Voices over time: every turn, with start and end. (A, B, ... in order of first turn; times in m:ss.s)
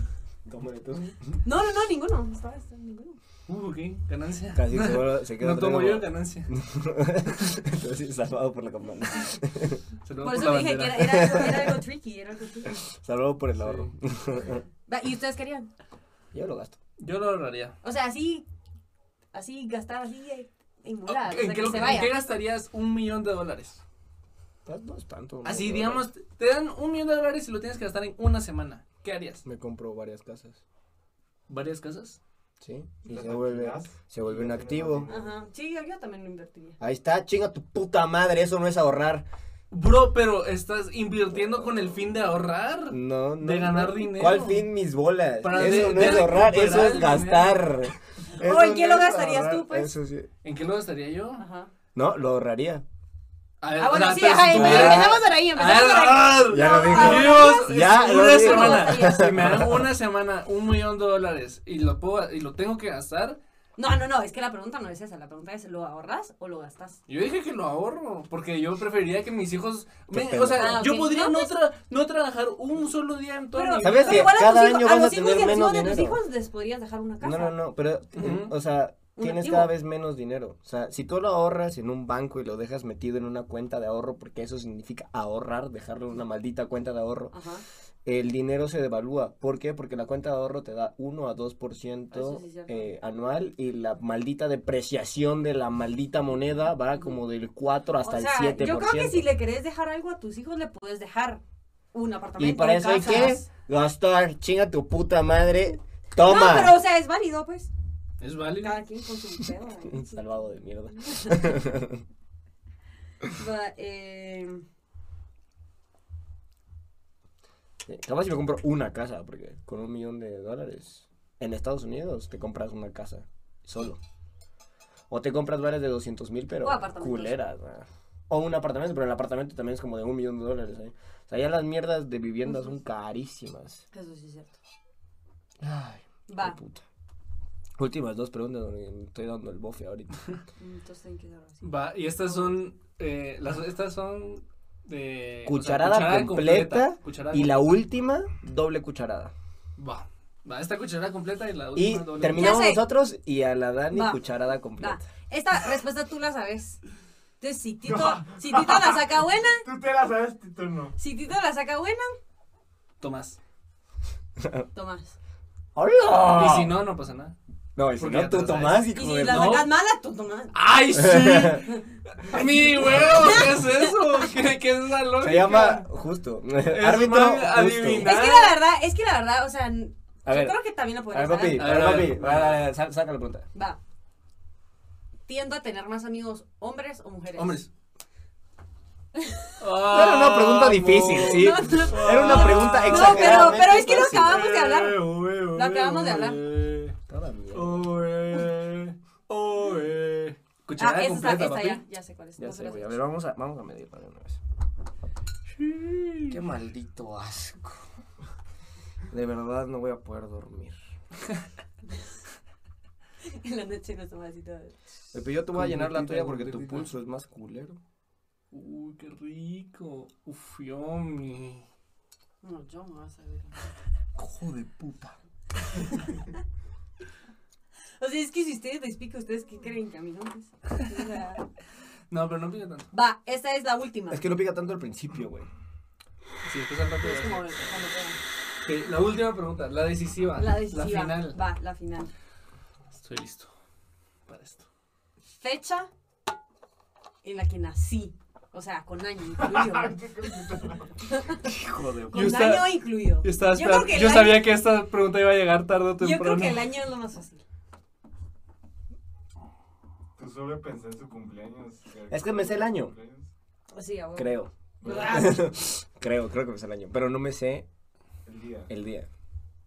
0:00.5-0:01.2 A
0:01.4-0:03.2 B
0:03.5-0:06.5 C
0:04.5-0:09.8 A
0:10.0-0:11.6 C
0:10.2-0:12.8 B
0:11.0-0:11.7 A
0:12.6-0:14.6 A
0:13.6-0:13.9 C
0:14.9-0:15.7 B
0:16.3-0:16.8 A
0:17.0-0:17.8 C
0:17.8-0:18.4 B
0:19.3-0:22.1 B
0:21.1-0:23.8 C
0:24.6-0:26.0 A
0:25.4-0:29.4 C
0:29.4-0:30.6 A
0:31.5-0:32.2 C
0:32.6-0:35.1 A
0:33.0-0:35.3 D
0:35.1-0:36.8 B
0:36.8-0:39.2 A
0:39.7-0:44.6 C
0:41.4-0:41.7 A
0:42.9-0:50.3 A
0:45.4-0:47.7 C
0:48.3-0:49.9 B
0:50.4-0:51.4 C
0:51.4-0:51.7 B
0:51.9-0:52.8 A
0:53.6-1:03.4 C
0:53.8-0:59.5 B
0:54.5-0:55.2 A
0:56.3-0:59.9 A
1:03.8-1:07.0 B
1:07.1-1:14.4 C
1:10.1-1:10.8 A
1:10.5-1:11.5 B
1:13.6-1:17.5 B
1:13.8-1:16.2 A
1:17.2-1:27.3 A
1:18.2-1:18.5 C
1:19.2-1:19.7 B
1:27.3-1:27.6 B
1:28.0-1:39.2 A
1:32.1-1:32.9 B
1:38.0-1:41.4 B
1:41.9-1:43.5 B
1:42.4-1:46.8 A
1:46.2-1:47.7 B
1:48.2-1:48.8 C
1:48.6-1:50.4 B
1:49.8-1:52.0 A
1:51.0-1:51.4 B
1:53.2-1:54.6 B
1:57.8-2:04.0 A
2:05.1-2:13.8 A
2:06.6-2:07.4 B
2:12.4-2:12.7 B
2:13.9-2:14.6 B
2:15.6-2:16.8 A
2:16.3-2:16.6 B
2:17.8-2:20.1 A
2:20.6-2:22.5 B
2:21.6-2:27.7 C
2:25.4-2:29.3 A
2:29.8-2:32.6 C
2:31.7-2:35.0 A
2:32.3-2:32.8 B
2:33.9-2:34.2 B
2:34.8-2:36.8 B
2:37.4-2:39.6 B
2:37.8-2:41.0 D
2:41.0-2:42.1 B
2:43.0-2:43.4 C
2:44.4-2:44.6 A
2:44.7-2:45.2 B
2:45.7-2:46.8 A
2:46.3-2:47.3 C
2:47.8-2:49.6 A
2:48.0-2:49.7 C
2:48.9-2:50.5 B
2:50.5-2:55.8 C
2:50.9-2:51.6 A
2:52.3-2:54.3 B
2:55.2-2:58.1 A
2:56.6-2:58.6 C
2:58.0-3:02.0 B
3:00.2-3:03.4 A
3:01.4-3:02.6 C
3:03.5-3:03.8 B
3:05.3-3:07.6 B
3:07.4-3:07.7 C
3:09.2-3:09.5 B
3:09.6-3:17.0 C
3:09.8-3:14.4 A
3:11.2-3:16.4 B
3:17.1-3:17.9 A
3:17.5-3:21.8 C
3:20.8-3:23.0 B
3:22.4-3:24.4 A
3:25.5-3:26.4 C
3:26.3-3:27.8 A
3:29.1-3:30.8 A
3:33.2-3:34.8 B
3:35.1-3:37.8 A
3:35.5-3:36.9 C
3:38.5-3:41.7 C
3:42.4-3:43.7 B
3:44.2-3:45.1 A
3:48.0-3:51.4 B
3:52.1-3:52.9 C
3:52.9-3:54.2 B
3:54.1-3:55.5 A
3:56.4-3:57.7 C
3:57.0-3:58.2 B
3:58.6-4:01.4 C
4:00.4-4:02.1 B
4:02.9-4:03.5 C
4:04.3-4:04.6 C
4:05.3-4:05.9 B
4:07.2-4:10.0 B
4:09.4-4:11.1 D
4:11.1-4:11.4 B
4:11.4-4:12.3 A
4:12.1-4:14.5 B
4:12.1-4:16.7 C
4:16.0-4:17.4 B
4:20.2-4:23.3 D
4:22.1-4:22.9 A
4:23.7-4:24.3 B
4:24.2-4:27.6 A
4:24.8-4:25.3 D
4:24.8-4:25.3 B
4:28.2-4:28.7 D
4:28.7-4:29.1 A